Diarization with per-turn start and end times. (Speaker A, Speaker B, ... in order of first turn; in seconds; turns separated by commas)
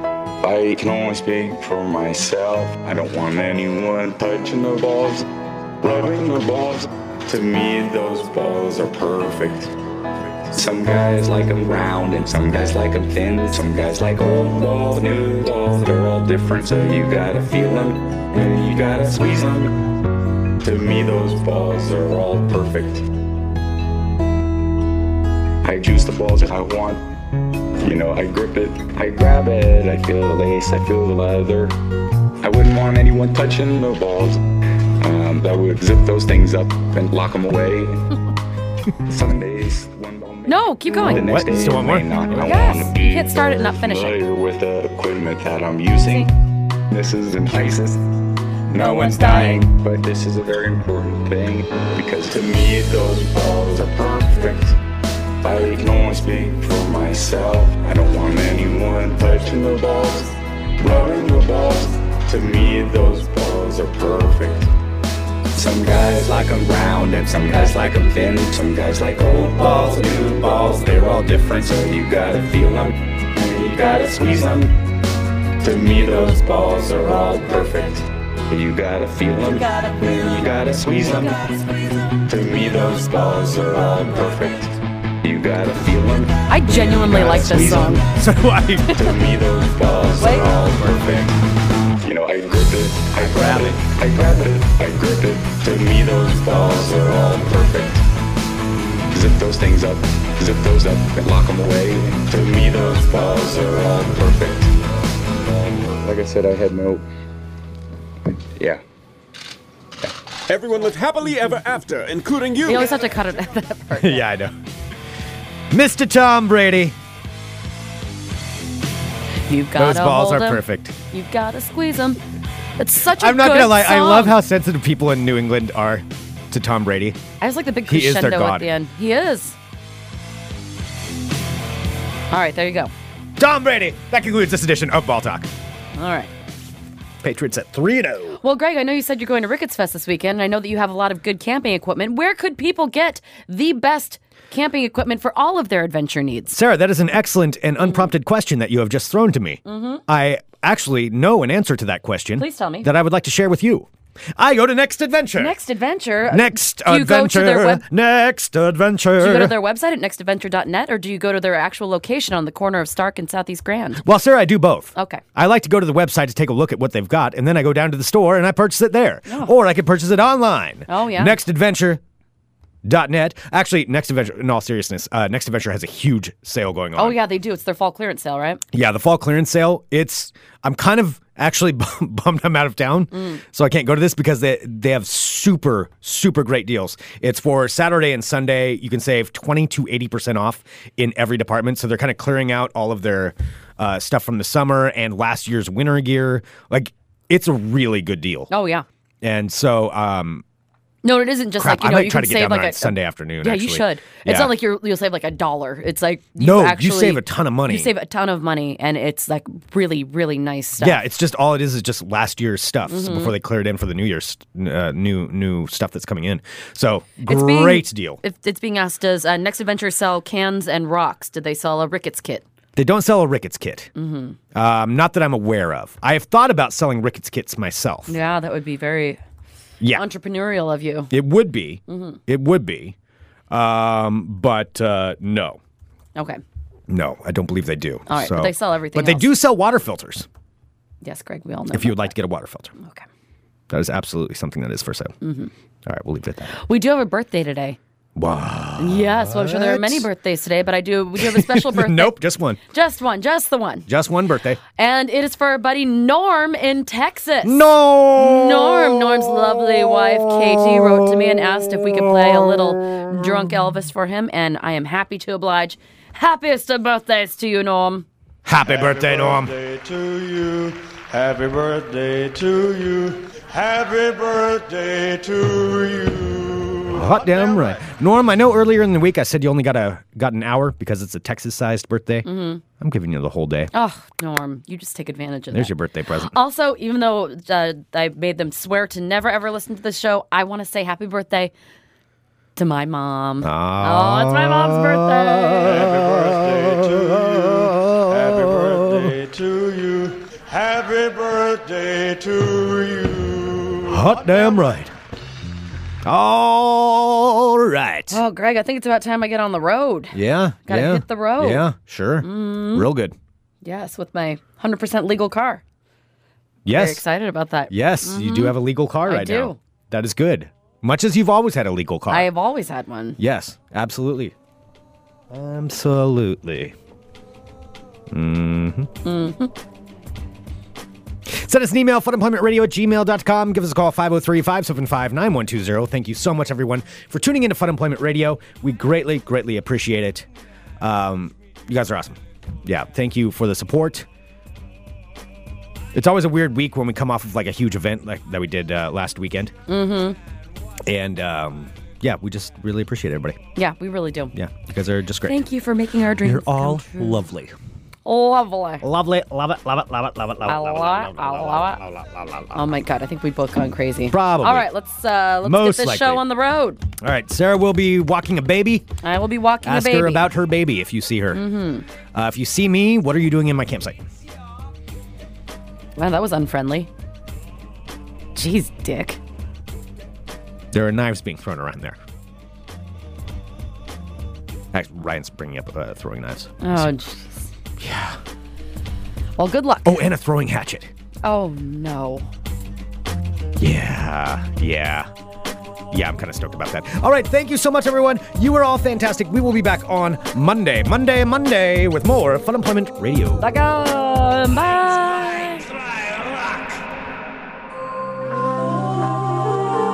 Speaker A: 0.4-5.2, Speaker A: 5.8-9.7, Speaker A: 10.5-19.7, Speaker A: 20.6-23.1, Speaker A: 25.6-27.0, Speaker A: 27.8-31.7, Speaker A: 32.4-34.4, Speaker A: 35.0-38.0, Speaker A: 39.0-46.3, Speaker B: 40.5-41.3, Speaker C: 41.0-42.1, Speaker B: 42.4-44.2, Speaker A: 46.9-48.0, Speaker A: 48.7-54.8, Speaker B: 48.8-49.6, Speaker A: 55.4-64.7, Speaker A: 65.5-74.8, Speaker C: 69.7-71.1, Speaker A: 75.6-81.6, Speaker A: 82.1-88.0, Speaker B: 86.5-88.0, Speaker C: 87.1-89.0, Speaker A: 88.9-91.4, Speaker B: 90.2-90.5, Speaker C: 90.2-91.3, Speaker A: 92.0-98.0, Speaker C: 93.2-93.8, Speaker A: 99.1-104.7, Speaker A: 105.5-107.0, Speaker A: 108.5-108.8, Speaker D: 110.5-112.5, Speaker B: 112.6-114.2, Speaker C: 113.9-114.5, Speaker C: 115.7-117.0, Speaker B: 119.5-122.2, Speaker C: 119.8-120.9, Speaker B: 122.8-124.4, Speaker C: 123.2-127.2, Speaker B: 127.4-129.6, Speaker C: 127.8-128.7, Speaker B: 132.3-132.9, Speaker C: 133.4-135.5, Speaker B: 135.9-136.3, Speaker C: 137.2-138.4, Speaker B: 138.4-146.6, Speaker C: 146.5-155.5, Speaker B: 147.8-148.1, Speaker B: 149.7-150.0, Speaker B: 152.4-152.9, Speaker B: 155.3-157.8, Speaker C: 156.3-159.6, Speaker B: 159.2-164.0, Speaker C: 164.0-172.0, Speaker B: 164.9-165.2, Speaker B: 170.9-171.4, Speaker C: 172.8-177.2, Speaker B: 176.9-178.6, Speaker C: 178.7-198.5, Speaker B: 183.1-183.4, Speaker B: 198.5-198.8, Speaker C: 199.2-200.4, Speaker B: 201.0-211.0, Speaker C: 201.6-204.5, Speaker C: 206.4-207.9, Speaker C: 210.8-218.2, Speaker B: 212.8-213.3, Speaker B: 217.2-222.4, Speaker C: 222.8-223.9, Speaker B: 223.9-224.4, Speaker C: 224.5-228.2, Speaker B: 228.1-229.2, Speaker B: 229.9-231.1, Speaker C: 231.1-232.9, Speaker B: 231.9-232.2, Speaker C: 233.5-235.6, Speaker B: 236.2-236.4, Speaker C: 236.9-240.3, Speaker B: 238.1-239.3, Speaker B: 241.0-242.1, Speaker C: 241.7-242.7, Speaker B: 242.8-243.0, Speaker C: 243.7-245.1, Speaker B: 245.2-245.5, Speaker C: 245.8-246.5, Speaker B: 246.5-247.8, Speaker C: 248.2-250.1, Speaker B: 248.8-252.1, Speaker C: 251.2-252.6, Speaker B: 252.7-253.9, Speaker C: 253.9-254.6, Speaker B: 254.8-268.1, Speaker C: 257.4-263.5, Speaker C: 268.4-269.5, Speaker E: 268.6-277.8, Speaker C: 276.9-282.3, Speaker B: 282.2-282.6, Speaker C: 282.8-283.7, Speaker B: 283.7-285.7, Speaker C: 285.5-286.3, Speaker B: 286.3-291.5, Speaker B: 292.6-295.7, Speaker C: 293.4-299.1, Speaker E: 295.6-304.6, Speaker C: 303.9-304.9, Speaker C: 306.0-308.2, Speaker B: 308.1-311.7, Speaker C: 310.1-313.1, Speaker B: 312.2-312.9, Speaker B: 313.6-315.6, Speaker C: 316.6-317.0, Speaker B: 316.7-319.6, Speaker C: 317.7-322.3, Speaker B: 322.1-323.2, Speaker C: 323.2-324.3, Speaker C: 325.3-326.7, Speaker C: 328.1-328.9, Speaker B: 329.0-329.5, Speaker C: 331.2-340.3, Speaker C: 340.8-344.1, Speaker C: 345.9-349.5, Speaker B: 349.7-350.2, Speaker C: 350.9-353.4, Speaker B: 353.6-354.3, Speaker C: 354.3-355.4, Speaker B: 355.2-357.2, Speaker C: 356.2-357.5, Speaker B: 358.0-358.8, Speaker C: 358.8-362.6, Speaker B: 360.4-361.8, Speaker B: 362.5-366.8, Speaker C: 364.1-364.7, Speaker C: 365.4-366.2, Speaker C: 367.0-368.9, Speaker B: 369.0-370.2, Speaker C: 369.6-371.4, Speaker B: 371.3-371.9, Speaker C: 372.1-374.0, Speaker B: 375.9-376.9, Speaker B: 378.3-379.2, Speaker C: 380.7-382.0, Speaker C: 384.7-386.9, Speaker B: 386.6-387.5, Speaker C: 387.8-388.2, Speaker B: 389.4-390.0, Speaker C: 389.8-390.9, Speaker B: 391.2-392.3, Speaker C: 393.6-395.1, Speaker C: 395.9-403.4, Speaker B: 403.4-405.7, Speaker C: 404.6-406.8